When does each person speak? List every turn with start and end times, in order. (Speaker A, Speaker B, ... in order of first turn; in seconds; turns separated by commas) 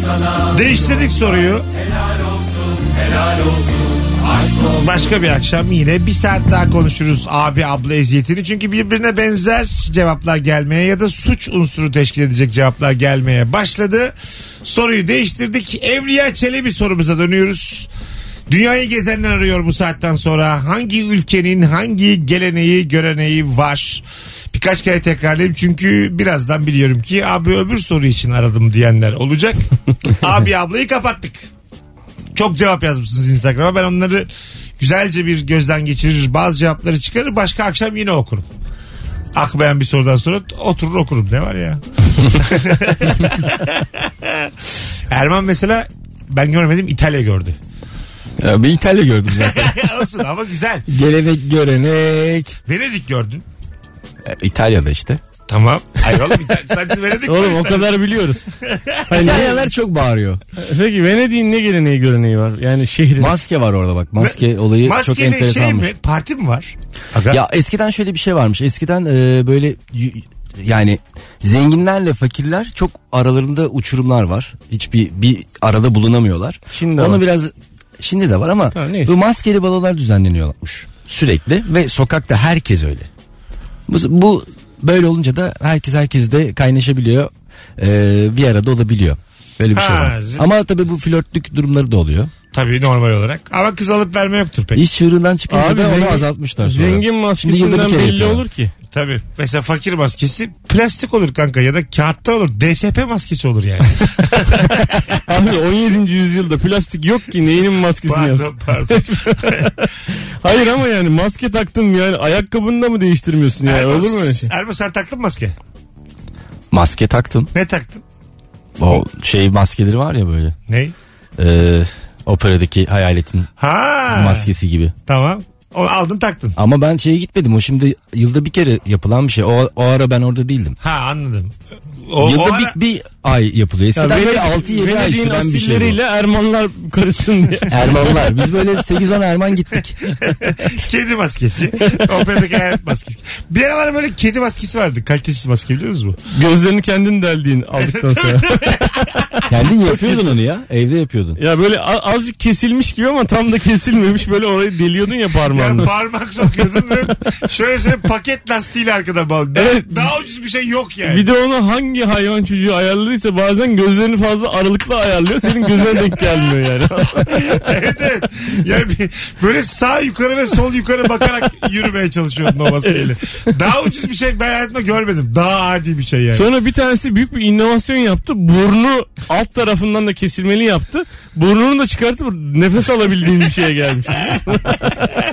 Speaker A: 0.4-1.7, Speaker A: 4.6-17.9, Speaker A: 18.5-31.5, Speaker A: 32.4-34.3, Speaker A: 34.8-38.5, Speaker A: 39.4-44.5, Speaker A: 45.1-47.6, Speaker B: 48.4-49.8, Speaker A: 49.4-50.9, Speaker B: 50.9-52.6, Speaker A: 52.7-53.5, Speaker B: 54.2-55.2, Speaker A: 55.5-57.9, Speaker C: 57.3-58.5, Speaker A: 58.6-59.5, Speaker C: 59.1-59.6, Speaker B: 59.1-60.4, Speaker C: 60.6-63.4, Speaker B: 63.2-65.9, Speaker A: 64.2-67.4, Speaker B: 67.3-83.1, Speaker C: 76.7-77.2, Speaker C: 78.8-79.2, Speaker B: 83.9-92.3, Speaker A: 89.7-90.5, Speaker A: 92.5-94.8, Speaker B: 94.7-98.4, Speaker C: 95.5-98.7, Speaker A: 98.9-105.1, Speaker C: 105.2-109.7, Speaker A: 108.1-109.8, Speaker C: 110.4-114.5, Speaker A: 113.7-115.6, Speaker B: 116.7-117.5, Speaker A: 117.5-118.0, Speaker B: 118.8-120.5, Speaker A: 120.7-120.9, Speaker B: 121.4-123.5, Speaker A: 123.6-124.5, Speaker B: 124.1-124.9, Speaker A: 125.1-126.5, Speaker B: 126.6-130.8, Speaker A: 130.8-131.6, Speaker A: 132.1-132.7, Speaker B: 132.2-136.0, Speaker C: 133.9-138.3, Speaker B: 137.7-140.0, Speaker A: 140.2-146.2, Speaker C: 146.3-149.2, Speaker A: 147.8-149.4, Speaker B: 149.5-151.4, Speaker C: 149.8-150.3, Speaker C: 151.4-155.9, Speaker A: 155.5-161.2, Speaker C: 159.6-160.1, Speaker C: 161.1-167.6, Speaker A: 167.3-176.4, Speaker C: 172.8-173.1, Speaker C: 176.3-185.0